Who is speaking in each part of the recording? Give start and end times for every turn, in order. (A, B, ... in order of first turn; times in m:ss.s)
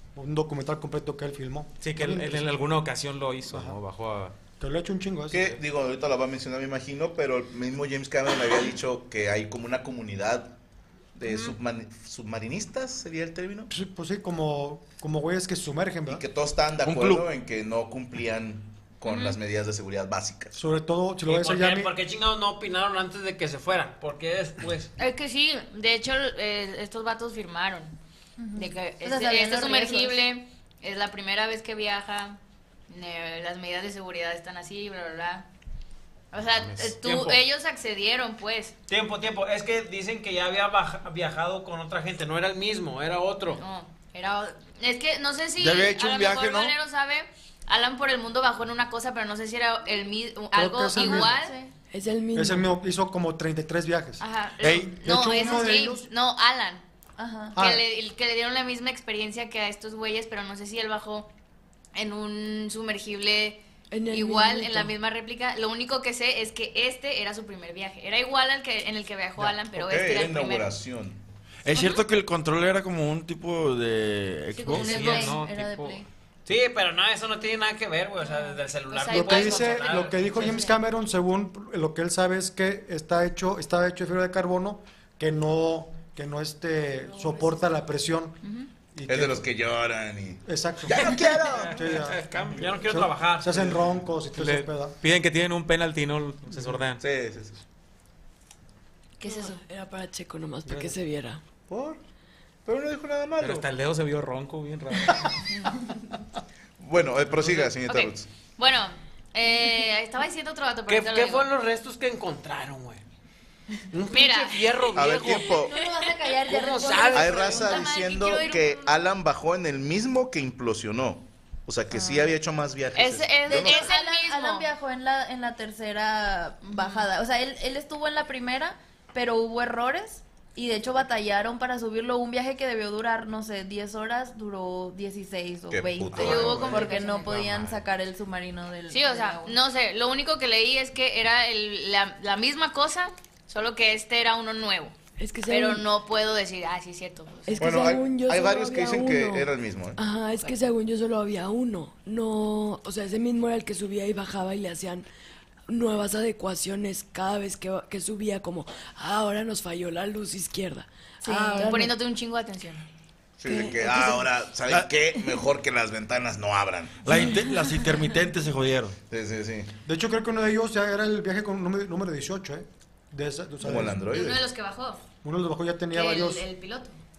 0:00.2-0:02.5 A
0:01.8-0:04.3 B
0:03.5-0:03.8 A
0:04.6-0:05.5 A
0:05.3-0:10.5 C
0:11.2-0:13.7 C
0:11.2-0:11.6 D
0:13.7-0:16.2 A
0:16.0-0:20.6 C
0:16.8-0:17.2 E
0:19.0-0:19.4 D
0:20.5-0:21.9 A
0:21.2-0:24.9 F
0:25.0-0:27.9 D
0:28.4-0:30.2 G
0:28.5-0:32.4 D
0:32.9-0:35.4 D
0:36.3-0:38.7 D
0:36.6-0:37.0 B
0:37.0-0:37.4 F
0:38.9-0:43.6 F
0:43.5-0:51.6 D
0:45.6-0:46.7 E
0:50.5-0:51.3 A
0:50.9-0:51.7 G
0:51.9-0:52.7 H
0:52.3-0:54.2 A
0:54.2-0:56.8 D
0:54.6-0:55.0 E
0:54.9-0:56.1 A
0:57.2-0:57.6 G
0:57.5-0:57.8 A
0:57.5-1:01.3 D
1:01.9-1:10.7 D
1:03.9-1:04.9 H
1:09.4-1:11.2 C
1:11.6-1:15.1 E
1:14.6-1:16.0 G
1:14.7-1:16.0 B
1:14.9-1:15.3 D
1:16.4-1:20.6 F
1:18.2-1:20.8 D
1:19.1-1:28.4 A
1:28.4-1:28.7 D
1:28.9-1:29.4 A
1:29.1-1:32.6 C
1:30.4-1:35.0 A
1:31.2-1:33.9 F
1:34.3-1:37.0 B
1:36.5-1:36.8 A
1:37.0-1:37.6 C
1:39.2-1:39.6 D
1:39.2-1:41.4 H
1:40.7-1:40.9 A
1:41.7-1:42.0 C
1:42.6-1:43.7 C
1:43.4-1:45.2 B
1:46.8-1:48.3 C
1:47.8-1:51.5 D
1:50.9-1:53.0 F
1:53.9-1:55.5 F
1:54.1-1:55.9 D
1:54.9-1:55.7 C
1:55.4-1:57.9 G
1:56.4-1:57.6 F
1:57.0-1:59.0 D
1:57.1-2:03.9 C
2:02.0-2:02.2 G
2:02.9-2:04.7 D
2:03.5-2:19.6 G
2:06.6-2:07.1 D
2:15.7-2:16.8 C
2:16.2-2:17.4 D
2:16.4-2:17.1 F
2:16.6-2:17.8 B
2:18.9-2:24.9 D
2:25.2-2:25.8 H
2:25.5-2:27.6 D
2:27.5-2:35.0 H
2:27.6-2:30.0 C
2:35.7-2:41.9 H
2:41.2-2:42.8 D
2:41.3-2:41.7 G
2:43.4-2:47.1 C
2:43.4-2:44.3 H
2:47.0-2:48.9 E
2:49.1-2:49.7 C
2:49.8-2:54.1 A
2:53.6-2:54.5 C
2:54.1-2:55.0 D
2:55.2-2:56.4 A
2:55.9-2:57.0 D